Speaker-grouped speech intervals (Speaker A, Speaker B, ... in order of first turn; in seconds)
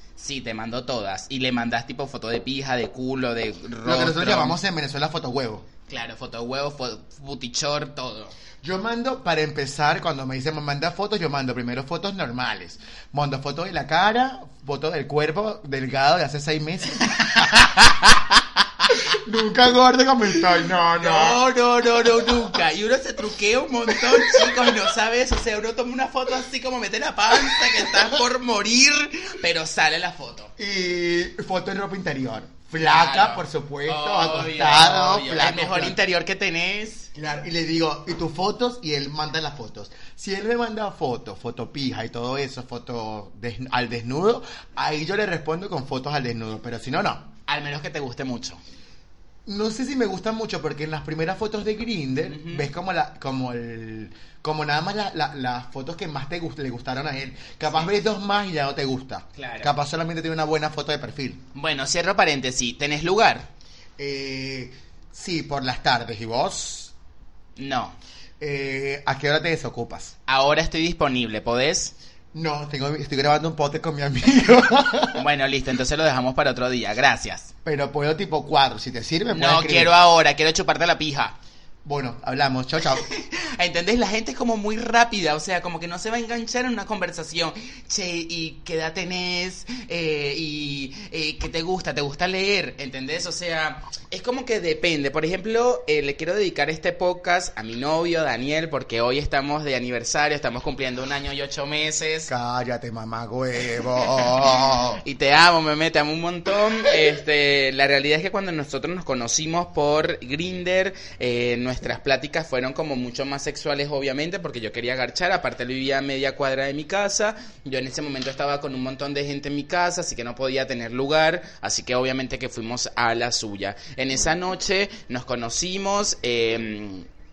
Speaker A: 0.2-4.6, 5.9-8.3, 17.1-18.9, 20.9-30.5, 32.7-37.1, 47.5-48.6, 52.2-52.7, 59.4-59.7, 61.5-63.5, 67.6-68.0, 70.3-71.9, 75.2-77.5, 79.3-81.4, 82.9-102.3, 105.0-127.1
Speaker B: 3.8-5.7, 8.6-17.4, 19.1-21.4, 23.9-24.7, 27.4-28.0, 30.6-36.0, 37.1-47.3, 49.5-61.4, 64.0-66.9, 68.4-70.2, 72.3-75.2, 77.6-79.9, 81.8-83.0, 102.3-105.0